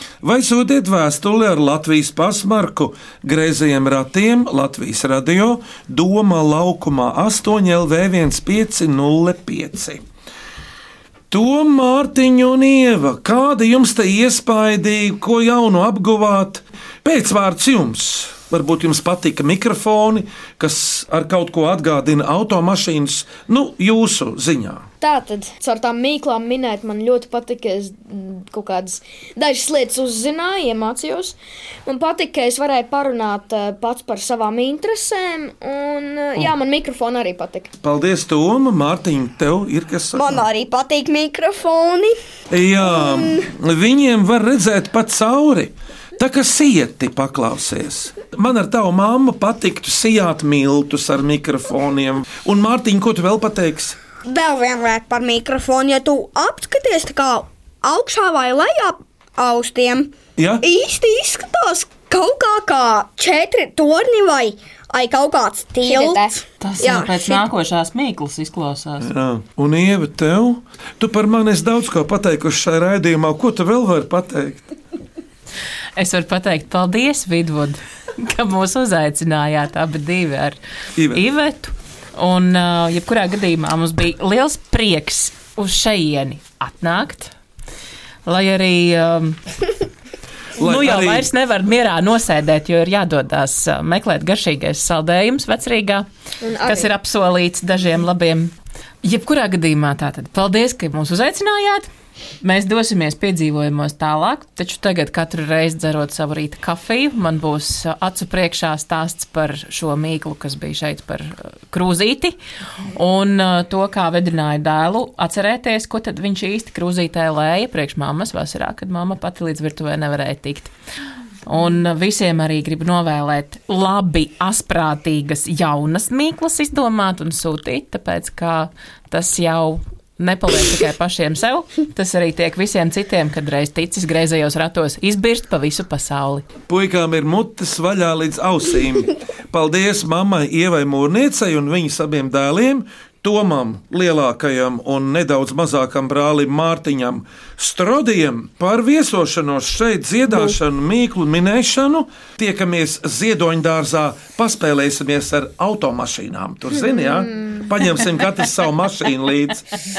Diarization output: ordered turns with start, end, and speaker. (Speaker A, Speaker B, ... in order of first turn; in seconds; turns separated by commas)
Speaker A: 0.2-10.0, Speaker A: 11.3-24.9, Speaker B: 25.0-37.7, Speaker A: 37.8-40.4, Speaker C: 40.1-42.1, Speaker A: 42.5-54.0, Speaker C: 42.8-43.5, Speaker C: 54.2-67.4, Speaker A: 60.4-60.6, Speaker B: 65.8-66.3, Speaker D: 66.6-69.1, Speaker A: 69.0-74.7, Speaker D: 76.0-80.6, Speaker A: 81.0-81.2, Speaker D: 81.1-87.3, Speaker D: 88.3-89.4, Speaker A: 90.6-91.3, Speaker D: 90.6-96.1, Speaker B: 96.4-96.9, Speaker D: 96.6-98.5, Speaker D: 99.0-101.9, Speaker D: 102.4-112.4, Speaker D: 112.9-120.7, Speaker D: 121.5-136.5, Speaker A: 136.7-159.6, Speaker B: 156.7-157.7